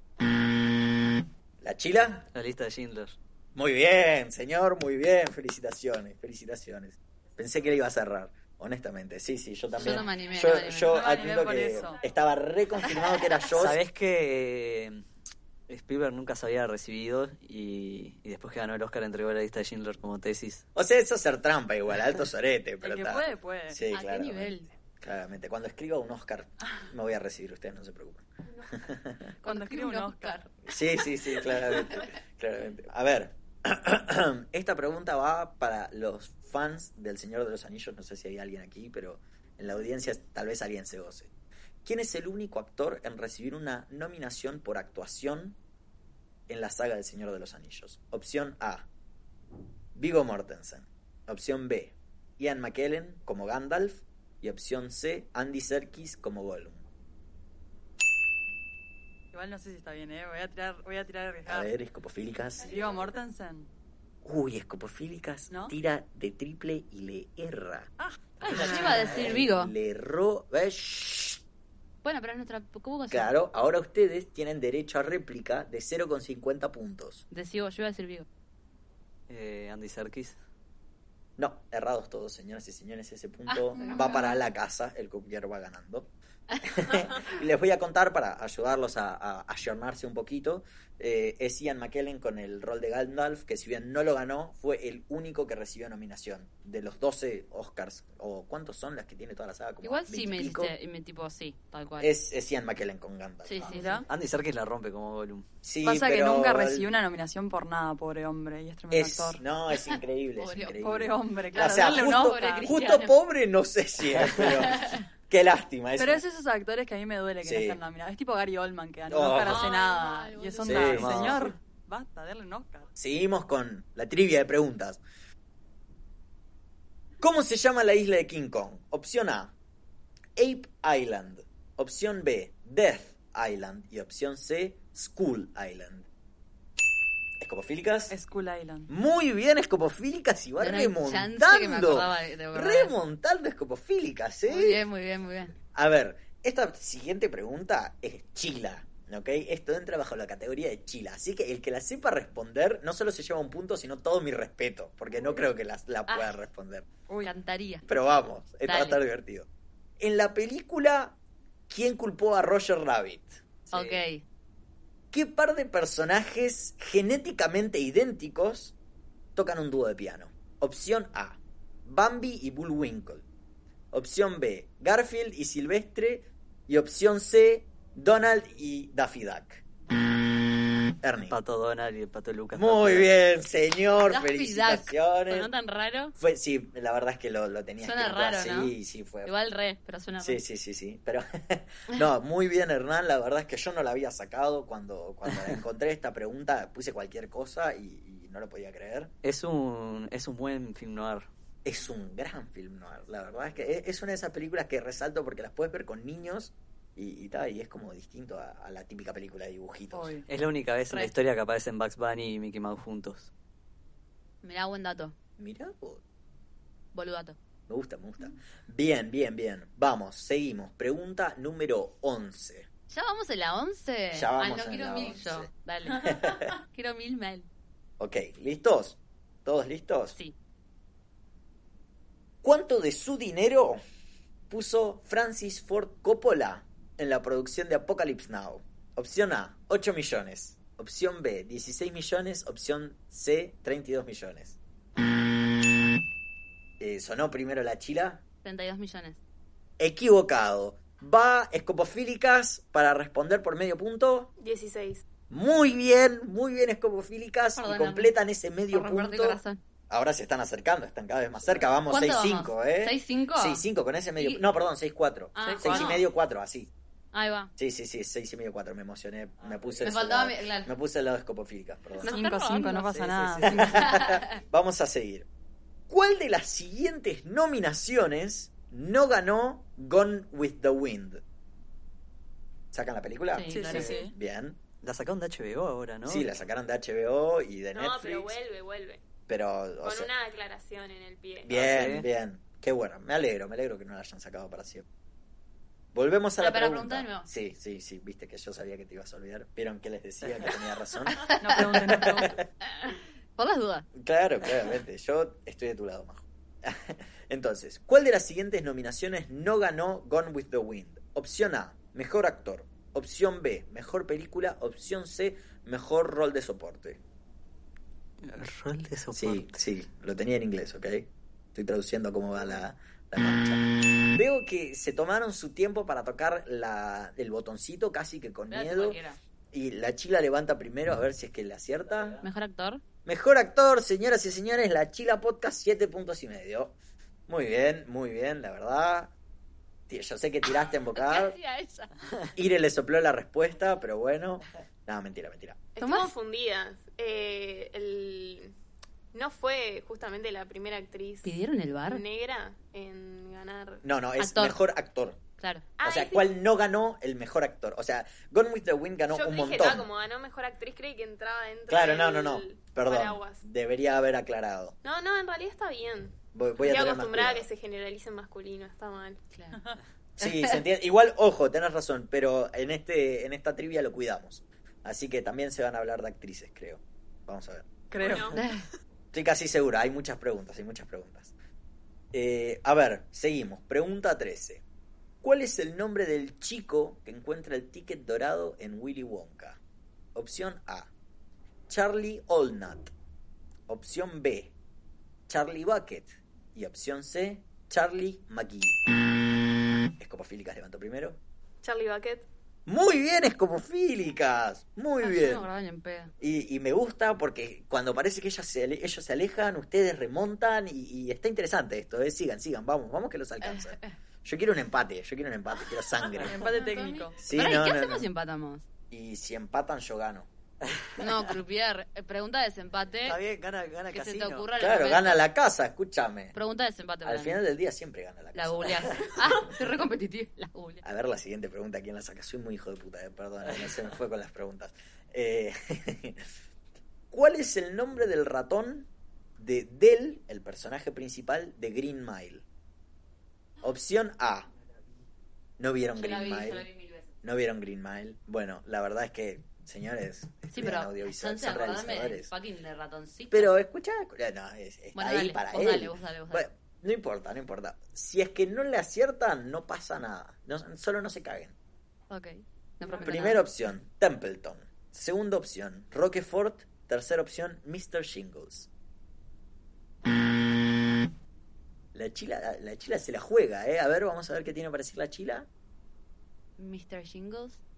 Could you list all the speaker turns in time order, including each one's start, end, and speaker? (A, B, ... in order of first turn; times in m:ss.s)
0:01.6-0:02.3 A
0:02.3-0:03.2 B
0:03.6-0:13.8 A
0:09.8-0:11.0 C
0:10.9-0:12.0 D
0:13.5-0:15.0 B
0:15.7-0:20.6 B
0:20.8-0:29.3 A
0:22.8-0:23.8 D
0:23.9-0:24.7 C
0:29.4-0:30.4 D
0:29.4-0:30.5 C
0:30.7-0:41.3 A
0:31.5-0:32.1 C
0:41.8-0:45.6 A
0:46.5-0:48.9 A
0:50.0-0:56.8 A
0:59.3-1:01.7 D
1:01.5-1:02.8 A
1:02.7-1:03.7 D
1:04.2-1:07.9 A
1:05.5-1:05.8 D
1:08.0-1:09.1 D
1:08.4-1:09.7 C
1:08.4-1:11.4 A
1:12.0-1:13.3 C
1:13.1-1:17.2 A
1:17.3-1:18.3 C
1:19.3-1:20.4 B
1:21.4-1:40.7 A
1:23.5-1:24.3 C
1:39.8-1:42.1 C
1:42.0-1:43.8 A
1:43.4-1:44.0 C
1:43.7-1:44.1 D
1:44.1-1:45.5 B
1:45.6-1:46.9 A
1:45.8-1:49.4 D
1:48.9-1:56.2 A
1:49.9-1:50.8 C
1:50.8-1:52.7 D
1:51.5-1:53.2 C
1:54.2-1:54.5 B
1:54.7-1:55.0 C
1:56.0-2:02.9 D
1:57.4-1:57.8 A
1:59.1-1:59.7 A
1:59.4-2:01.0 C
2:00.6-2:01.5 A
2:00.7-2:01.5 B
2:03.0-2:05.0 A
2:07.2-2:09.5 A
2:10.4-2:16.1 A
2:17.4-2:18.2 A
2:18.1-2:18.9 D
2:18.9-2:24.8 A
2:20.6-2:22.9 C
2:24.5-2:25.6 C
2:25.8-2:36.9 A
2:36.1-2:36.3 C
2:37.1-2:37.3 D
2:37.2-2:37.8 C
2:37.9-2:39.5 A
2:38.6-2:39.0 C
2:40.0-2:41.2 A
2:41.7-2:43.4 A
2:43.7-2:44.0 B
2:43.7-2:44.2 C
2:45.1-2:48.8 A
2:49.4-2:53.2 A
2:53.9-2:59.6 A
3:01.0-3:01.4 A
3:01.3-3:03.1 B
3:02.5-3:05.5 A
3:04.0-3:06.2 C
3:06.2-3:09.3 A
3:07.8-3:10.4 C
3:10.2-3:19.1 A
3:19.2-3:21.3 B
3:21.6-3:30.2 A
3:29.9-3:30.3 D
3:30.3-3:33.3 B
3:34.4-3:35.1 C
3:35.4-3:36.0 A
3:36.9-3:37.4 C
3:37.7-3:42.7 A
3:42.9-3:47.5 C
3:44.1-3:46.5 A
3:48.0-3:50.2 A
3:52.4-3:53.8 A
3:54.5-4:04.6 A
4:06.8-4:08.2 A
4:08.4-4:09.2 C
4:09.8-4:14.3 A
4:14.4-4:15.0 E
4:15.3-4:26.7 A
4:17.6-4:18.1 C
4:18.7-4:19.6 C
4:21.9-4:23.6 C
4:24.2-4:24.5 C
4:25.4-4:26.0 C
4:25.4-4:25.8 D
4:27.1-4:27.5 C
4:27.6-4:32.2 A
4:29.8-4:30.7 C
4:32.0-4:32.8 C
4:32.1-4:33.9 D
4:32.6-4:33.8 B
4:33.4-4:35.3 A
4:33.7-4:34.2 C
4:35.9-4:41.2 A
4:42.7-4:44.6 A
4:43.3-4:44.0 C
4:43.5-4:44.1 D
4:44.8-4:46.3 B
4:46.1-4:48.4 A
4:47.7-4:49.0 E
4:49.3-4:50.1 A
4:49.8-4:51.5 E
4:51.4-4:54.8 A
4:51.5-4:52.1 B
4:55.9-5:02.4 A
4:56.4-4:57.3 C
5:01.2-5:02.4 D
5:02.8-5:03.9 C
5:03.9-5:17.0 A
5:18.2-5:19.6 B
5:19.1-5:29.0 A
5:28.5-5:29.2 C
5:29.5-5:32.2 A
5:32.2-5:32.8 C
5:33.0-5:36.8 A
5:37.3-5:39.1 A
5:39.9-5:41.4 A
5:40.9-5:41.9 C
5:42.4-5:45.6 A
5:45.8-5:48.6 E
5:45.8-5:46.1 C
5:49.1-5:51.3 E
5:51.2-5:52.0 C
5:51.8-5:53.8 E
5:53.8-5:55.2 A
5:54.2-5:54.6 C
5:55.4-5:55.7 C
5:55.8-5:56.3 E
5:55.8-5:59.9 A
5:59.1-6:03.4 E
6:01.7-6:04.8 A
6:04.8-6:09.2 E
6:06.3-6:07.5 A
6:09.3-6:09.6 C
6:10.2-6:18.2 A
6:17.9-6:18.5 D
6:18.0-6:18.4 E
6:19.1-6:21.3 A
6:22.1-6:24.6 A
6:25.2-6:29.6 A
6:30.2-6:30.9 A
6:31.7-6:32.9 A
6:33.7-6:34.5 A
6:35.3-6:38.8 A
6:40.0-6:41.2 A
6:41.6-6:42.3 E
6:42.7-6:45.5 A
6:45.0-6:46.1 C
6:46.2-6:56.4 A
6:53.4-6:54.0 C
6:56.2-6:57.2 D
6:56.3-6:58.6 C
6:57.2-6:58.1 A
6:58.9-7:00.3 A
7:00.7-7:01.2 B
7:01.0-7:03.2 C
7:03.0-7:04.5 B
7:03.9-7:05.2 C
7:04.6-7:06.4 A
7:06.3-7:07.4 C
7:07.0-7:09.5 A
7:08.4-7:10.8 C
7:10.8-7:16.2 A
7:17.1-7:22.4 A
7:23.6-7:24.5 A
7:25.6-7:26.7 A
7:25.9-7:27.1 C
7:27.2-7:32.3 A
7:30.5-7:33.6 C
7:33.3-7:41.6 A
7:35.0-7:36.5 C
7:42.1-7:43.4 C
7:43.0-7:48.7 A
7:51.9-7:55.5 A
7:56.6-7:57.6 C